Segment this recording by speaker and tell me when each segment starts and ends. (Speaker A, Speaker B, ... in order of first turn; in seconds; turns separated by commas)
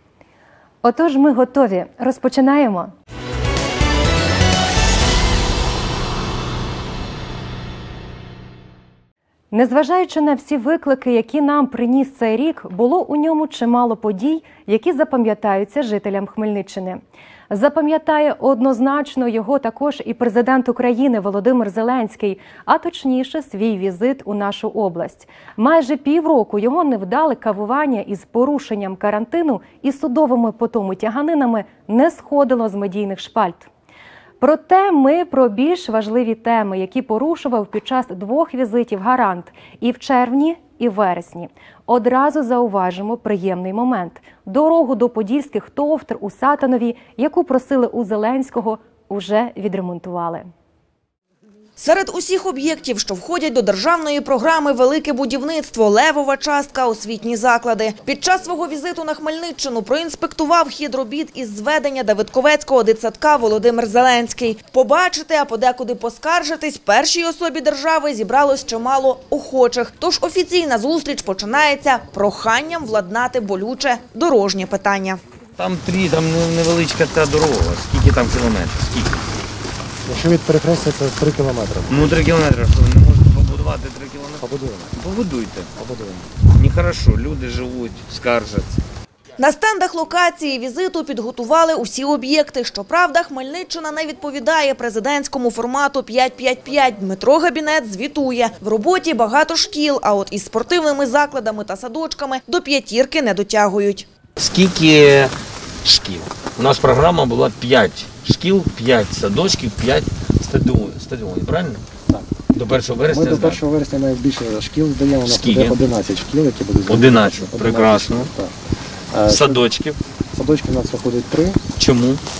Speaker A: 0.8-2.9, Speaker A: 9.5-33.7, Speaker A: 34.4-50.5, Speaker B: 51.8-75.2, Speaker C: 75.6-79.2, Speaker D: 80.0-82.2, Speaker C: 81.9-85.7, Speaker D: 84.4-84.9, Speaker D: 85.8-86.2, Speaker C: 86.4-88.8, Speaker B: 89.4-104.0, Speaker C: 104.4-111.8, Speaker C: 112.5-113.6, Speaker D: 113.1-118.5, Speaker C: 115.2-115.8, Speaker C: 116.9-118.3, Speaker D: 119.1-119.7, Speaker C: 119.3-120.0, Speaker D: 120.3-121.6, Speaker C: 121.8-122.2